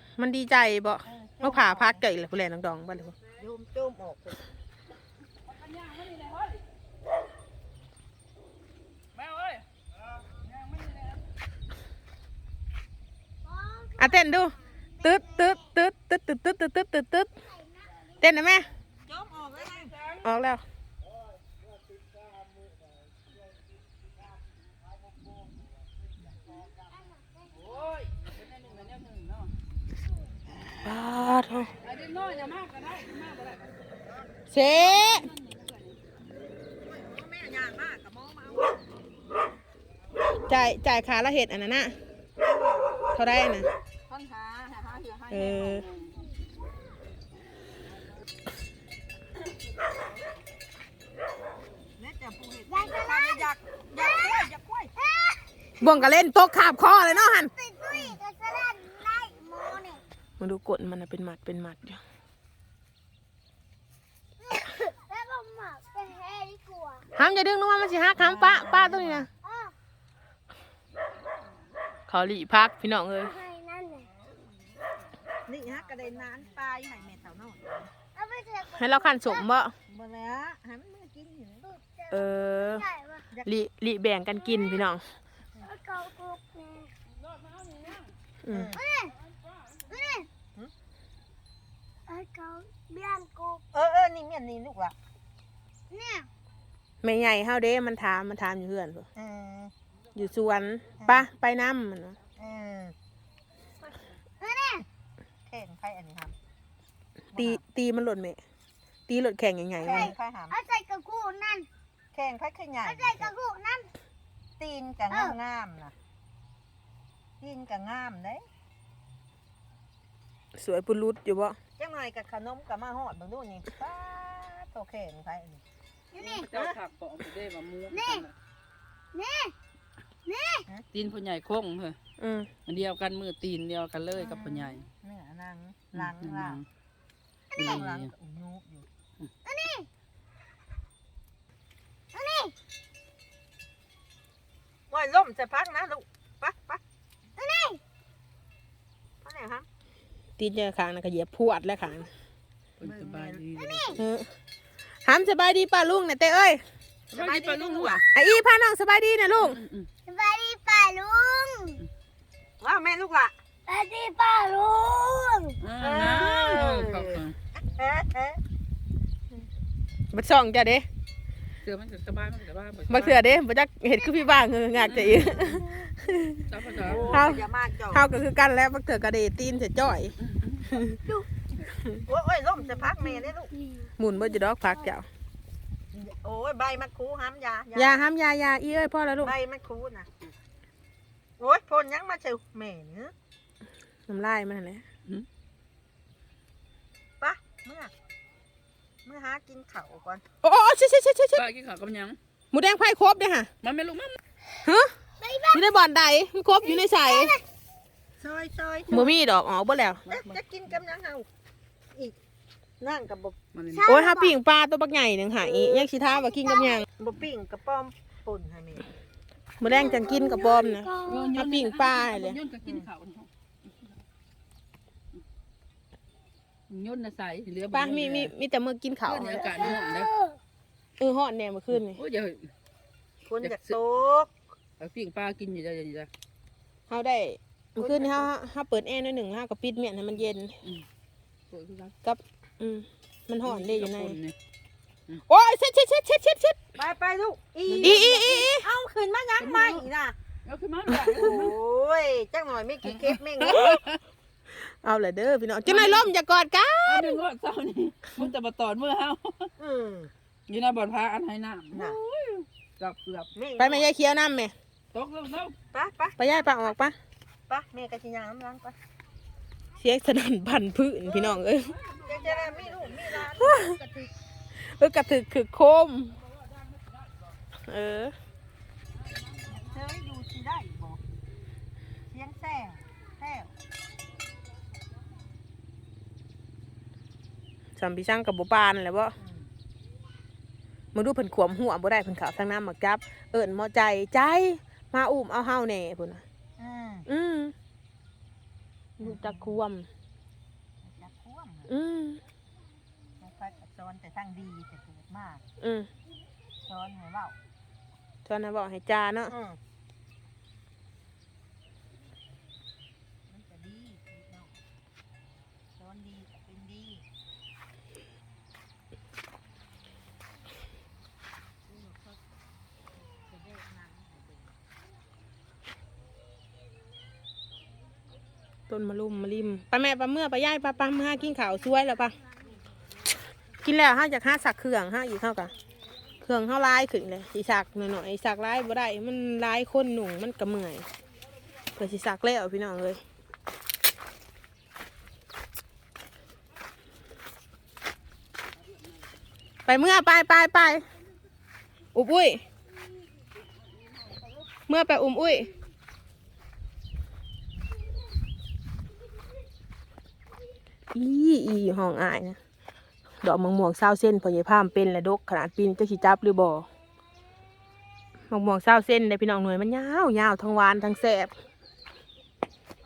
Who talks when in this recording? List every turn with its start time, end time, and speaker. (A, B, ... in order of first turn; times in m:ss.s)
0:00.2-0:03.1 A
0:01.0-0:02.0 B
0:03.4-0:04.4 B
0:05.4-0:06.6 C
0:09.1-0:09.6 C
0:10.4-0:11.2 C
0:13.4-0:15.7 D
0:14.0-0:17.3 A
0:17.5-0:17.9 D
0:18.2-0:18.7 A
0:19.0-0:20.0 B
0:19.8-0:20.2 C
0:20.2-0:20.6 A
0:26.9-0:27.5 D
0:27.5-0:29.5 C
0:30.8-0:31.7 A
0:31.8-0:33.7 C
0:34.5-0:35.3 A
0:34.6-0:36.0 C
0:36.8-0:38.8 B
0:40.4-0:42.0 A
0:43.1-0:43.7 A
0:44.1-0:46.2 C
0:45.3-0:45.8 A
0:52.0-0:54.9 B
0:52.7-0:53.5 D
0:54.0-0:55.5 D
0:55.8-0:57.5 A
0:57.1-1:00.0 D
0:57.9-0:58.2 B
1:00.4-1:02.0 A
1:04.4-1:07.1 D
1:07.2-1:09.3 A
1:08.1-1:09.3 B
1:09.4-1:09.7 D
1:12.1-1:13.3 A
1:13.2-1:14.1 D
1:15.5-1:18.0 B
1:18.1-1:19.5 D
1:18.7-1:19.7 A
1:19.8-1:21.9 B
1:22.0-1:23.2 D
1:22.1-1:22.9 A
1:23.4-1:25.1 A
1:25.6-1:26.9 D
1:27.1-1:28.1 C
1:28.4-1:28.7 A
1:28.5-1:28.8 B
1:28.8-1:29.1 D
1:29.9-1:30.3 D
1:32.1-1:33.6 D
1:33.7-1:34.9 B
1:35.9-1:36.3 D
1:37.0-1:39.0 A
1:39.1-1:39.7 B
1:40.1-1:42.2 A
1:41.0-1:41.3 B
1:42.4-1:42.9 B
1:44.4-1:44.8 D
1:45.5-1:46.4 B
1:47.3-1:47.6 B
1:47.3-1:48.4 A
1:49.1-1:50.1 A
1:49.8-1:50.6 B
1:49.9-1:51.7 D
1:52.1-1:53.3 B
1:52.9-1:53.9 D
1:54.6-1:55.9 B
1:57.4-1:58.4 B
2:00.5-2:01.6 A
2:01.8-2:05.6 B
2:06.1-2:08.3 C
2:06.5-2:06.8 B
2:07.9-2:08.2 D
2:09.1-2:09.5 D
2:10.2-2:10.6 D
2:10.9-2:12.0 C
2:12.2-2:12.5 A
2:12.6-2:14.8 C
2:14.2-2:16.6 B
2:15.9-2:16.6 C
2:17.6-2:18.1 C
2:17.6-2:18.9 B
2:19.4-2:19.9 D
2:22.1-2:22.5 D
2:24.9-2:26.8 B
2:27.4-2:27.8 D
2:29.2-2:29.6 B
2:30.4-2:32.1 A
2:32.8-2:34.0 C
2:32.8-2:33.5 B
2:33.7-2:33.9 D
2:34.0-2:34.3 A
2:35.0-2:36.6 A
2:37.1-2:38.1 C
2:37.1-2:38.0 B
2:38.1-2:39.6 A
2:39.4-2:39.9 C
2:40.1-2:41.8 D
2:42.6-2:43.3 B
2:43.7-2:45.6 D
2:45.6-2:47.4 C
2:45.8-2:48.4 B
2:50.1-2:50.8 A
2:51.6-2:53.4 C
2:52.9-2:56.5 A
2:54.8-2:55.4 C
2:56.5-2:57.3 C
2:56.9-2:58.2 B
2:57.1-3:01.0 A
3:00.2-3:00.6 C
3:02.0-3:03.5 B
3:03.6-3:03.9 D
3:04.0-3:05.1 A
3:05.9-3:07.9 B
3:07.7-3:09.3 A
3:09.2-3:10.1 B
3:11.4-3:13.1 B
3:14.1-3:14.8 A
3:17.2-3:17.9 B
3:19.0-3:20.2 B
3:20.4-3:21.4 A
3:21.3-3:22.2 C
3:22.5-3:23.5 A
3:23.6-3:24.2 C
3:24.6-3:24.9 A
3:25.2-3:25.6 D
3:25.5-3:27.4 A
3:26.6-3:27.4 D
3:28.2-3:29.1 B
3:28.9-3:30.0 A
3:30.0-3:30.4 C
3:30.1-3:31.3 B
3:32.8-3:33.4 B
3:33.5-3:33.8 C
3:33.7-3:34.3 D
3:33.8-3:36.8 A
3:35.4-3:35.8 B
3:36.1-3:36.7 D
3:36.9-3:38.9 B
3:39.6-3:42.4 A
3:39.7-3:41.3 D
3:41.0-3:43.3 C
3:46.7-3:48.3 C
3:47.7-3:49.7 A
3:49.0-3:50.1 C
3:49.8-3:50.4 D
3:51.0-3:52.0 A
3:51.7-3:52.5 C
3:53.2-3:54.3 B
3:53.4-3:53.8 C
3:54.8-3:56.1 C
3:56.9-4:00.6 A
3:57.8-3:58.3 B
4:01.5-4:01.9 C
4:02.0-4:04.2 A
4:03.4-4:04.3 C
4:05.3-4:06.6 A
4:06.7-4:10.2 B
4:07.7-4:08.1 C
4:07.8-4:08.6 A
4:09.4-4:09.9 C
4:10.4-4:11.6 C
4:11.0-4:13.8 B
4:12.8-4:14.0 C
4:13.5-4:13.7 A
4:14.6-4:17.2 A
4:15.6-4:16.1 C
4:16.8-4:19.5 C
4:19.6-4:20.1 B
4:20.5-4:23.3 C
4:21.7-4:22.0 B
4:23.4-4:23.9 B
4:23.6-4:24.5 A
4:24.9-4:25.5 C
4:25.7-4:26.5 B
4:26.2-4:26.9 A
4:27.5-4:28.7 B
4:29.8-4:31.8 A
4:31.2-4:33.0 C
4:32.0-4:34.1 B
4:33.4-4:33.7 A
4:34.6-4:36.2 A
4:37.5-4:38.1 A
4:39.5-4:41.0 B
4:42.1-4:43.5 B
4:47.8-4:49.1 A
4:49.2-4:49.5 B
4:50.9-4:56.2 A
4:56.6-4:57.1 B
4:57.1-4:57.5 A
4:59.0-4:59.9 A
4:59.0-4:59.6 B
5:00.8-5:01.7 B
5:01.7-5:02.2 A
5:03.2-5:05.4 B
5:05.6-5:05.9 A
5:06.6-5:07.4 B
5:08.2-5:09.3 A
5:09.3-5:09.6 B
5:13.3-5:14.5 B
5:15.8-5:17.0 B
5:23.2-5:24.4 B
5:28.7-5:32.1 A
5:33.6-5:35.5 A
5:36.2-5:40.8 A
5:41.8-5:43.0 A
5:49.6-5:50.8 A
5:51.9-5:52.4 A
5:54.7-5:55.5 A
6:00.9-6:02.4 A
6:03.2-6:06.7 A
6:08.3-6:11.3 A